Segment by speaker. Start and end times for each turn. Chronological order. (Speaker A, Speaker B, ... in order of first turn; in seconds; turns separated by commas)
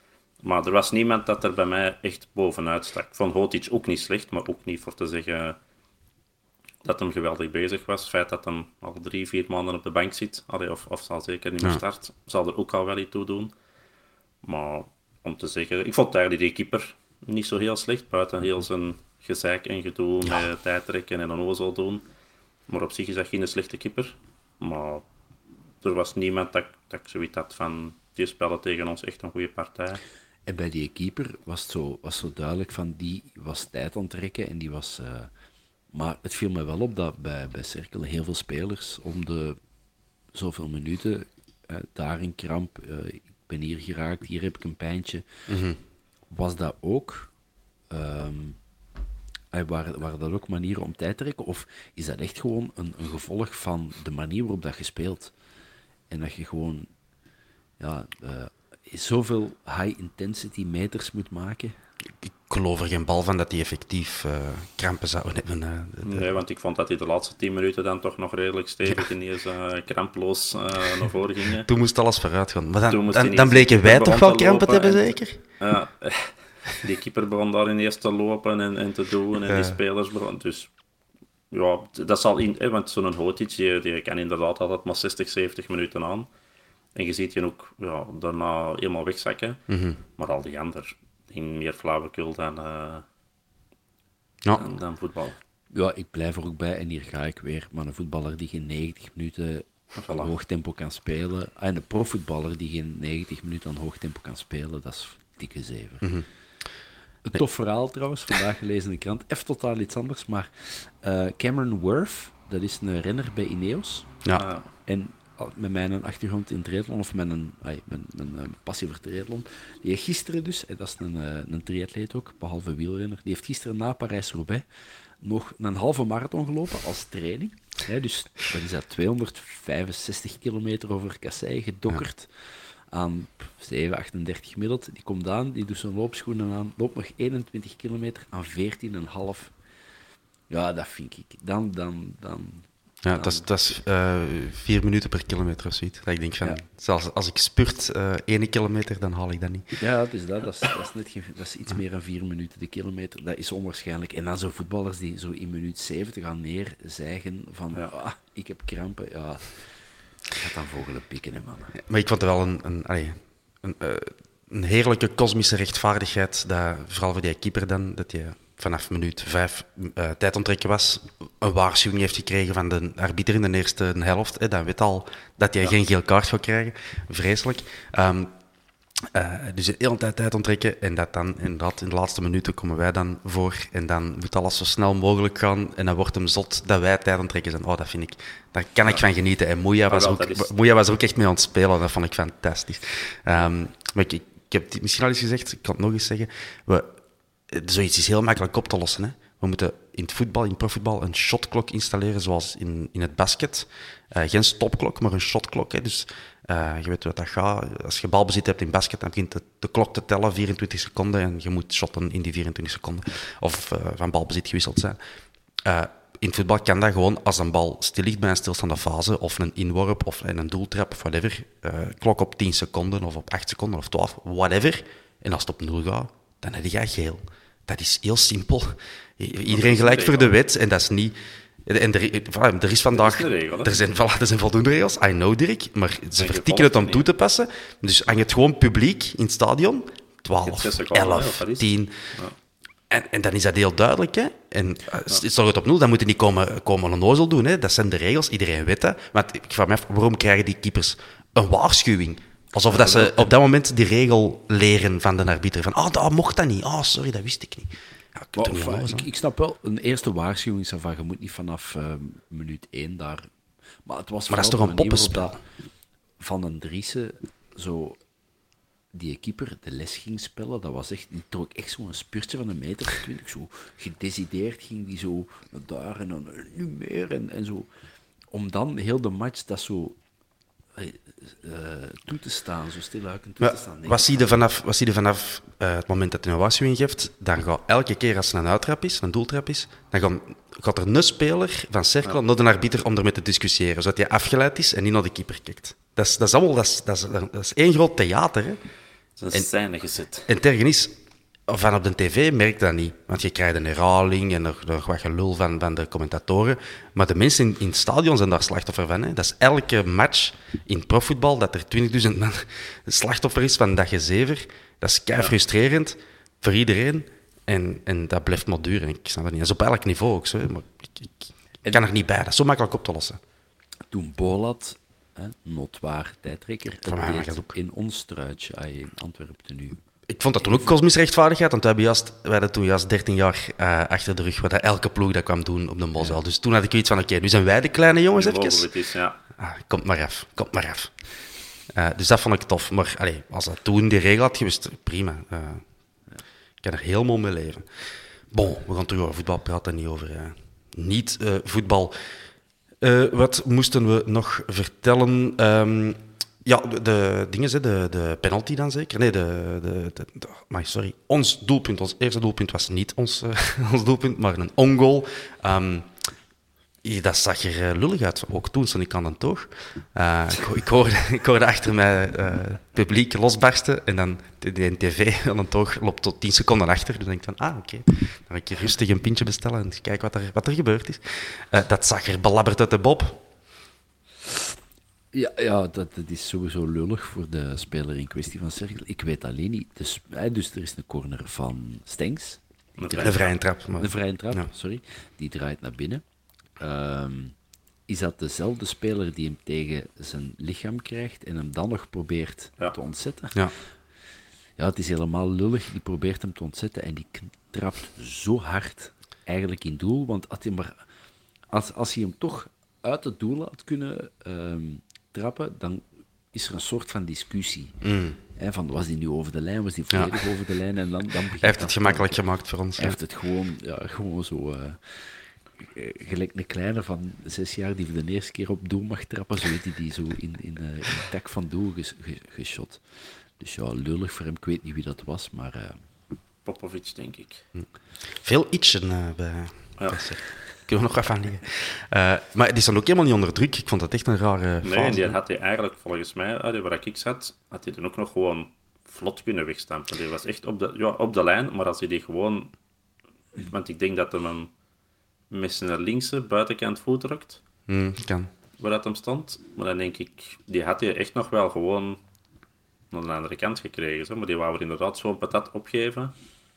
Speaker A: 0.4-5.6, Speaker A: 6.8-13.5, Speaker A: 14.4-22.0, Speaker A: 22.7-25.0, Speaker A: 25.8-30.0, Speaker B: 30.5-35.3, Speaker B: 35.9-39.6, Speaker B: 40.3-45.2, Speaker C: 45.5-45.8, Speaker B: 46.3-47.3, Speaker B: 47.9-48.6, Speaker B: 49.5-55.3, Speaker B: 56.1-56.9, Speaker B: 57.8-61.7, Speaker C: 62.2-66.3, Speaker A: 66.0-71.7, Speaker C: 71.6-75.4, Speaker A: 72.9-80.7, Speaker C: 79.5-79.8, Speaker A: 81.5-86.3, Speaker A: 87.0-89.6, Speaker C: 89.7-90.0, Speaker A: 90.2-93.0, Speaker A: 94.5-95.4, Speaker B: 95.7-106.1, Speaker A: 100.0-100.3, Speaker C: 106.0-106.3, Speaker B: 107.2-114.1, Speaker A: 114.3-114.7, Speaker B: 114.8-124.6, Speaker B: 125.2-132.3, Speaker B: 132.9-139.5, Speaker B: 140.5-143.4, Speaker C: 143.0-149.8, Speaker B: 149.8-159.7, Speaker B: 160.3-161.8, Speaker C: 161.8-178.3, Speaker C: 179.1-197.0, Speaker A: 189.9-190.5, Speaker C: 197.5-215.0, Speaker C: 215.6-242.1, Speaker A: 229.5-230.3, Speaker A: 232.9-233.9, Speaker A: 236.2-237.1, Speaker A: 240.4-242.3, Speaker C: 242.9-259.1, Speaker B: 252.6-253.3, Speaker B: 258.4-263.3, Speaker B: 263.8-265.4, Speaker C: 264.3-265.4, Speaker B: 266.2-268.0, Speaker B: 268.9-277.7, Speaker B: 278.3-280.0, Speaker B: 280.7-284.4, Speaker C: 283.4-298.6, Speaker A: 299.2-300.3, Speaker C: 300.3-300.9, Speaker C: 301.5-323.2, Speaker B: 323.9-329.8, Speaker C: 326.8-327.5, Speaker C: 330.1-338.7, Speaker B: 330.4-330.7, Speaker A: 338.1-339.2, Speaker C: 339.4-341.0, Speaker C: 341.7-345.6, Speaker C: 346.6-351.9, Speaker C: 352.8-365.9, Speaker C: 366.8-383.2, Speaker B: 385.1-393.1, Speaker A: 392.8-393.3, Speaker C: 393.0-394.5, Speaker B: 393.8-396.0, Speaker B: 396.6-397.3, Speaker B: 397.9-403.4, Speaker B: 404.6-410.8, Speaker B: 411.5-417.8, Speaker C: 417.8-418.2, Speaker B: 418.4-422.2, Speaker C: 419.9-420.2, Speaker C: 421.4-423.0, Speaker B: 422.8-432.8, Speaker B: 433.4-435.8, Speaker A: 436.4-437.4, Speaker C: 437.6-445.1, Speaker A: 439.8-440.0, Speaker A: 444.6-452.5, Speaker A: 453.4-454.5, Speaker A: 455.3-457.4, Speaker C: 457.7-458.3, Speaker A: 458.6-462.0, Speaker A: 462.9-466.1